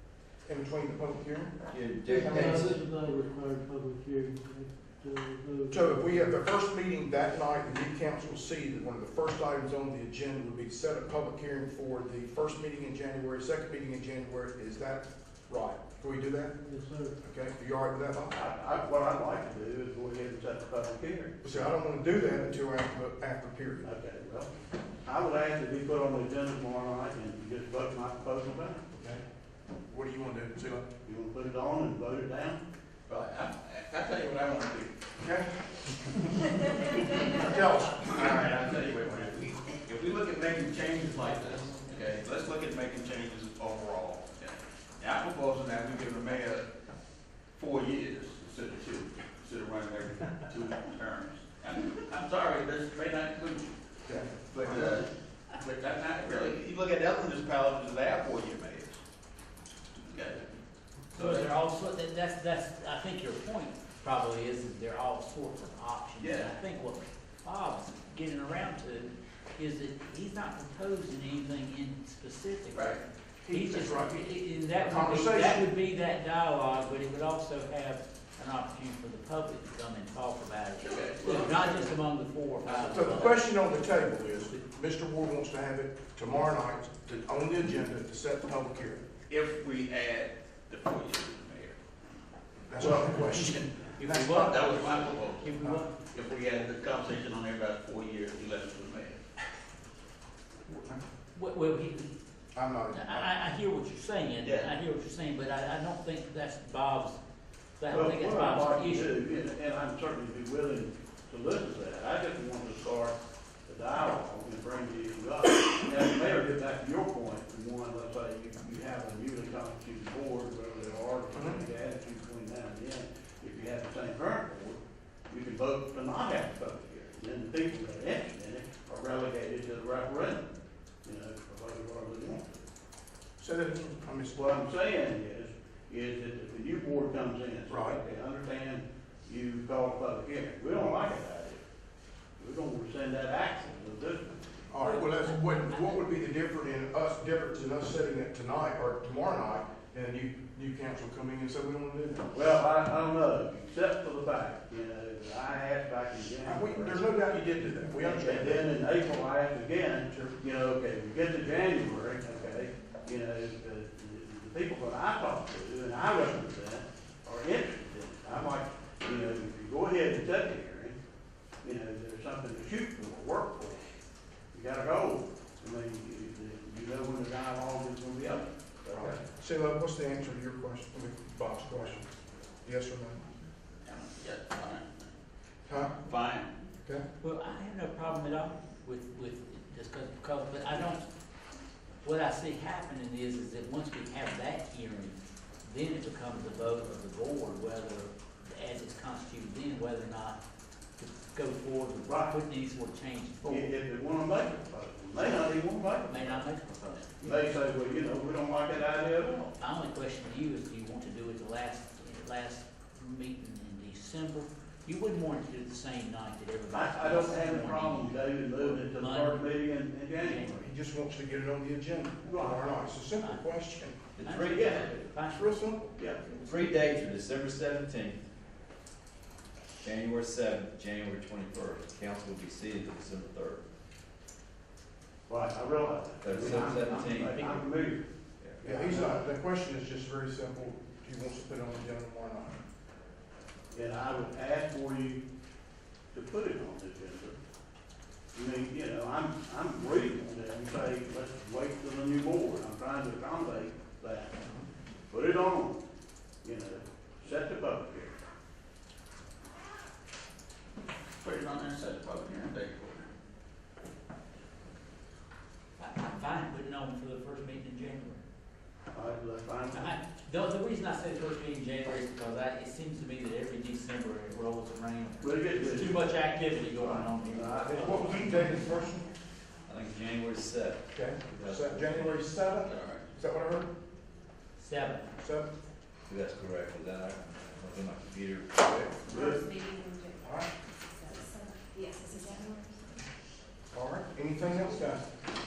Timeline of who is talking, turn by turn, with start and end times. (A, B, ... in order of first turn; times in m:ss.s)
0:00.5-0:02.8 A
0:01.7-0:02.8 B
0:02.1-0:06.4 C
0:05.7-0:16.6 A
0:16.6-0:17.2 C
0:17.2-0:18.5 A
0:18.3-0:21.6 D
0:21.4-0:23.9 A
0:23.8-0:24.5 D
0:25.0-0:28.9 D
0:28.9-0:29.2 A
0:29.9-0:30.8 A
0:31.1-0:32.6 D
0:33.1-0:35.0 E
0:35.2-0:36.4 A
0:37.2-0:39.2 A
0:37.4-0:46.7 E
0:47.6-0:53.8 E
0:54.1-0:55.0 A
0:54.5-0:59.0 E
1:00.1-1:00.5 E
1:01.1-1:01.5 E
1:01.2-1:23.5 F
1:06.2-1:06.6 E
1:12.7-1:13.0 E
1:13.4-1:14.2 A
1:14.8-1:15.7 A
1:20.8-1:21.6 E
1:21.3-1:21.9 A
1:22.7-1:29.1 A
1:29.3-1:31.8 E
1:32.7-1:35.8 A
1:33.1-1:36.0 F
1:34.2-1:39.2 E
1:40.7-1:41.0 A
1:41.4-1:42.2 F
1:42.5-1:43.3 A
1:42.9-1:47.2 F
1:44.4-1:44.7 E
1:47.8-1:49.1 F
1:47.9-2:04.8 D
2:01.3-2:01.6 A
2:05.3-2:10.5 D
2:11.0-2:12.6 D
2:13.4-2:14.4 A
2:14.3-2:21.6 D
2:17.7-2:18.0 A
2:22.4-2:24.6 D
2:24.7-2:32.3 A
2:24.8-2:26.0 F
2:32.3-2:37.2 D
2:36.4-2:38.6 A
2:37.9-2:51.0 D
2:51.6-2:53.8 D
2:54.5-2:59.2 D
2:58.9-3:02.1 A
3:02.6-3:03.3 A
3:03.8-3:05.1 E
3:05.7-3:05.9 A
3:05.7-3:06.6 E
3:07.2-3:11.0 F
3:12.0-3:20.4 F
3:21.0-3:23.7 F
3:22.0-3:22.4 D
3:23.4-3:26.5 D
3:26.0-3:27.4 F
3:27.2-3:29.5 D
3:29.6-3:39.6 F
3:36.7-3:40.6 D
3:40.2-3:40.6 F
3:40.6-3:44.0 A
3:42.2-3:42.7 D
3:43.2-3:46.7 F
3:44.2-3:44.8 B
3:44.5-3:44.9 D
3:45.3-3:45.9 A
3:46.0-3:46.3 D
3:46.4-3:48.3 B
3:49.8-3:53.6 B
3:55.3-3:58.1 D
3:56.2-3:57.6 B
3:58.6-3:59.2 D
3:58.6-4:02.6 A
4:03.7-4:05.2 D
4:06.1-4:07.4 D
4:08.3-4:14.4 D
4:15.1-4:15.8 D
4:16.4-4:18.2 D
4:21.2-4:23.1 E
4:25.8-4:28.2 F
4:28.9-4:29.9 D
4:29.7-4:38.8 F
4:35.2-4:36.0 D
4:36.8-4:38.2 D
4:37.6-4:39.1 A
4:39.6-4:42.3 B
4:40.9-4:43.7 A
4:42.6-4:43.1 E
4:44.6-4:45.1 F
4:45.2-4:45.5 A
4:46.1-4:48.7 B
4:48.6-4:48.9 A
4:49.1-4:49.5 D
4:49.1-4:50.2 G
4:50.2-4:50.5 A
4:51.0-4:52.9 G
4:53.7-4:55.1 A